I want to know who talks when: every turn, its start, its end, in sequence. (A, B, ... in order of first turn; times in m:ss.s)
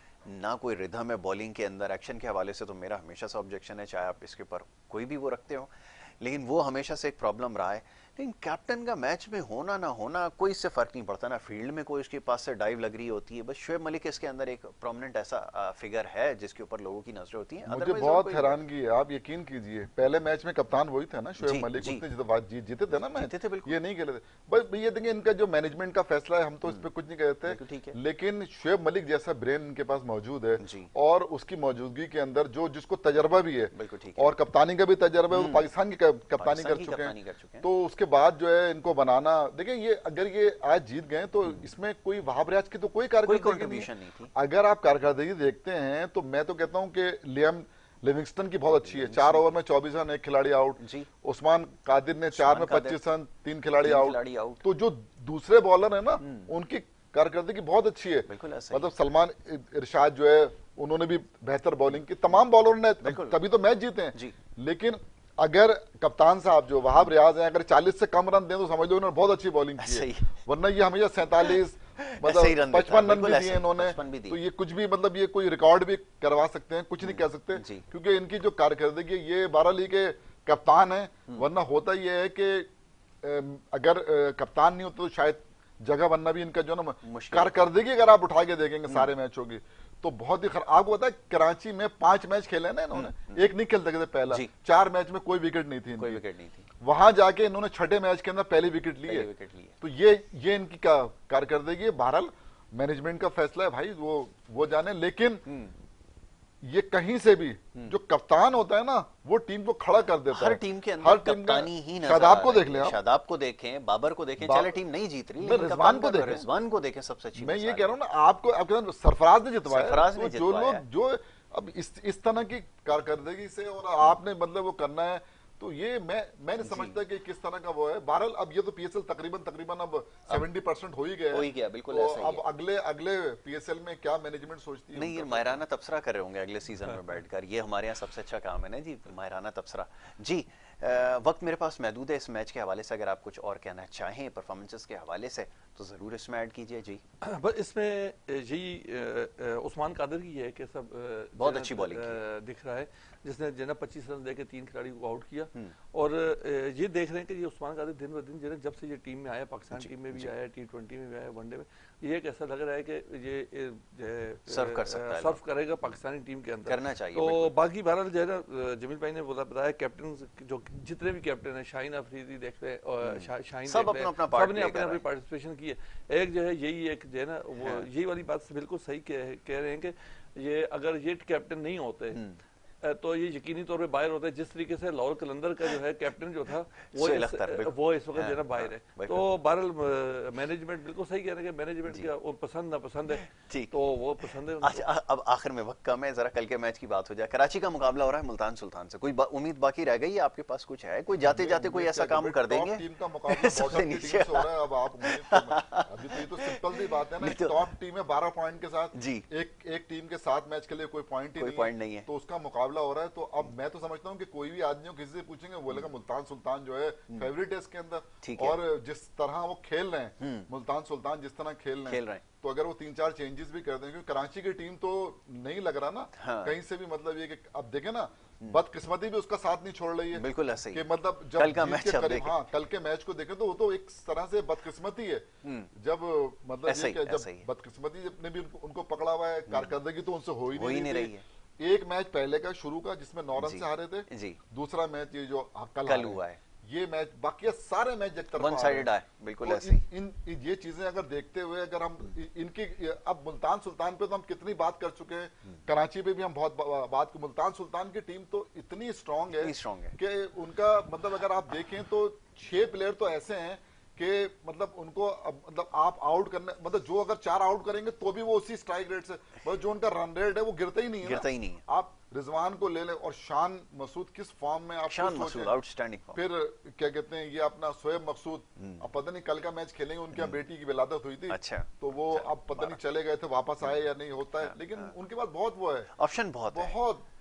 0:00.2-0:18.6 A
0:17.7-1:22.7 B
0:21.4-0:22.0 A
0:23.1-0:23.8 A
0:27.5-0:28.0 A
0:30.6-0:30.9 A
0:33.7-0:34.4 A
0:35.3-0:35.7 A
0:36.4-0:37.7 A
0:43.2-0:44.3 A
0:48.7-0:49.5 A
0:50.8-0:51.1 A
0:52.3-0:53.0 A
0:53.8-0:54.6 A
0:56.2-0:56.5 A
0:58.3-0:58.9 A
1:03.0-1:03.4 A
1:09.8-1:10.3 A
1:11.5-1:14.4 A
1:17.0-1:17.8 A
1:23.2-1:36.2 B
1:27.0-1:27.6 A
1:32.9-1:33.4 A
1:36.0-1:36.7 A
1:36.8-1:39.3 B
1:39.1-1:39.8 A
1:39.8-1:45.4 B
1:45.5-1:45.7 A
1:46.6-1:53.0 B
1:50.3-1:57.9 A
1:54.4-1:54.8 B
1:55.4-1:56.5 B
1:57.4-2:15.6 B
1:59.7-2:00.8 A
2:06.6-2:07.0 A
2:11.3-2:12.4 A
2:14.9-2:27.0 A
2:27.2-3:02.2 C
2:31.4-2:32.2 A
2:39.7-2:40.3 A
2:44.5-2:45.4 A
2:46.7-2:47.5 A
2:53.0-2:55.0 A
2:57.6-2:57.9 A
3:02.1-3:02.4 A
3:02.8-3:14.9 C
3:06.9-3:09.2 A
3:13.2-3:13.7 A
3:14.6-3:24.5 A
3:21.2-4:08.9 B
3:25.0-3:27.7 A
3:28.9-3:29.3 A
3:31.4-3:32.1 A
3:38.2-3:38.6 A
3:40.2-3:40.5 A
3:41.9-3:42.2 A
3:46.2-3:46.6 A
3:50.1-3:52.4 A
3:55.4-3:55.7 A
3:56.7-3:57.5 A
3:59.5-3:59.7 A
4:00.5-4:01.2 A
4:03.4-4:04.4 A
4:05.9-4:06.4 A
4:08.4-4:09.8 A
4:09.4-4:35.5 B
4:19.4-4:20.0 A
4:31.0-4:31.6 A
4:34.8-4:36.2 A
4:36.1-4:45.9 B
4:38.6-4:38.8 A
4:40.2-4:40.4 A
4:41.3-4:42.8 A
4:44.4-4:44.9 A
4:46.0-4:46.8 A
4:46.5-4:47.0 B